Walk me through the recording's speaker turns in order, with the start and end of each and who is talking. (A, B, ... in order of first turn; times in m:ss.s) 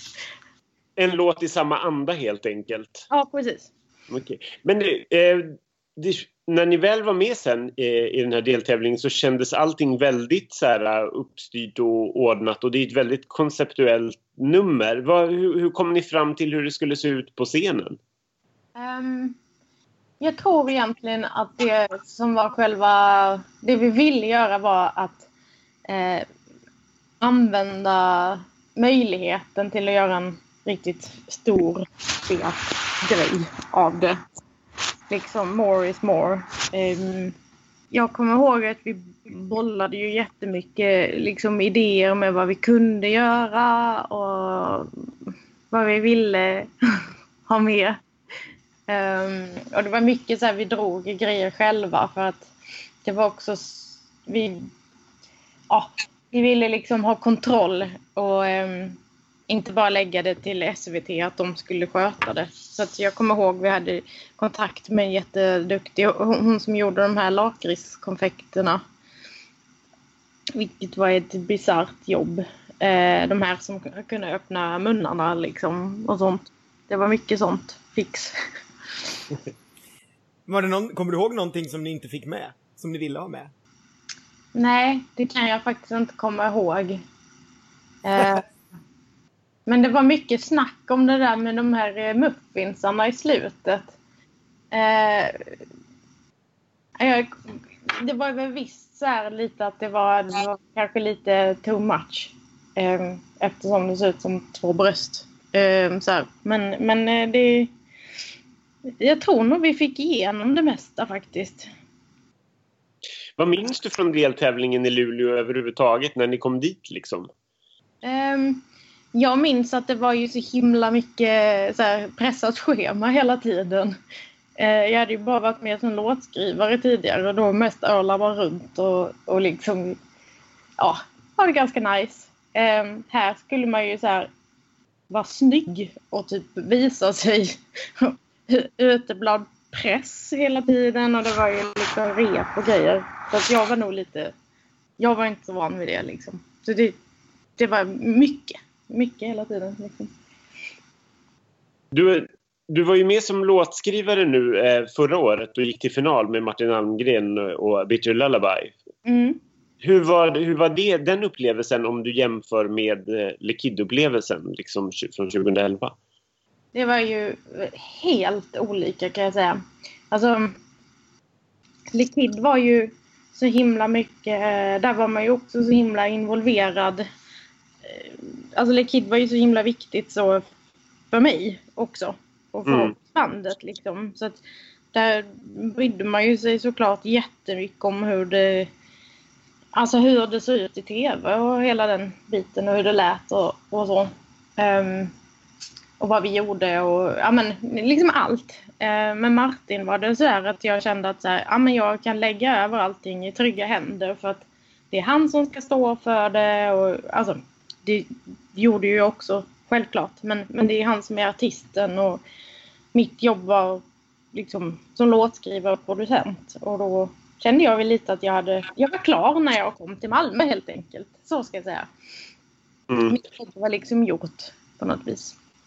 0:01.0-0:03.0 A
0:03.1-0:03.7 B
0:04.1-0:18.0 A
0:18.8-0:19.4 B
0:20.2-0:25.3 B
0:25.9-0:26.2 B
0:27.2-0:34.2 B
0:35.1-0:37.3 B
0:37.9-0:48.0 B
0:48.9-0:52.5 B
0:53.0-0:54.7 B
0:55.7-0:59.0 B
0:59.5-1:08.8 B
1:10.5-1:18.3 B
1:20.5-1:23.5 C
1:24.5-1:27.0 B
1:28.0-1:28.4 B
1:29.6-1:33.9 B
1:34.7-1:35.4 B
1:37.0-1:37.3 B
1:37.8-1:47.7 B
1:49.0-1:51.7 B
1:53.4-1:57.3 A
1:58.0-1:58.6 B
1:59.1-2:04.0 B
2:04.6-2:10.0 B
2:10.8-2:14.3 B
2:15.1-2:24.3 B
2:25.0-2:27.0 B
2:27.6-2:30.1 B
2:31.9-2:38.7 A
2:39.0-2:39.4 B
2:39.8-2:45.9 A
2:46.7-2:50.6 B
2:51.9-2:57.0 B
2:57.8-3:00.4 B
3:01.1-3:04.4 B
3:02.6-3:02.9 A
3:04.9-3:08.7 B
3:09.7-3:15.1 B
3:16.0-3:32.2 B
3:32.9-3:33.8 B
3:34.3-3:41.9 B
3:42.9-3:43.2 A
3:43.1-3:45.4 B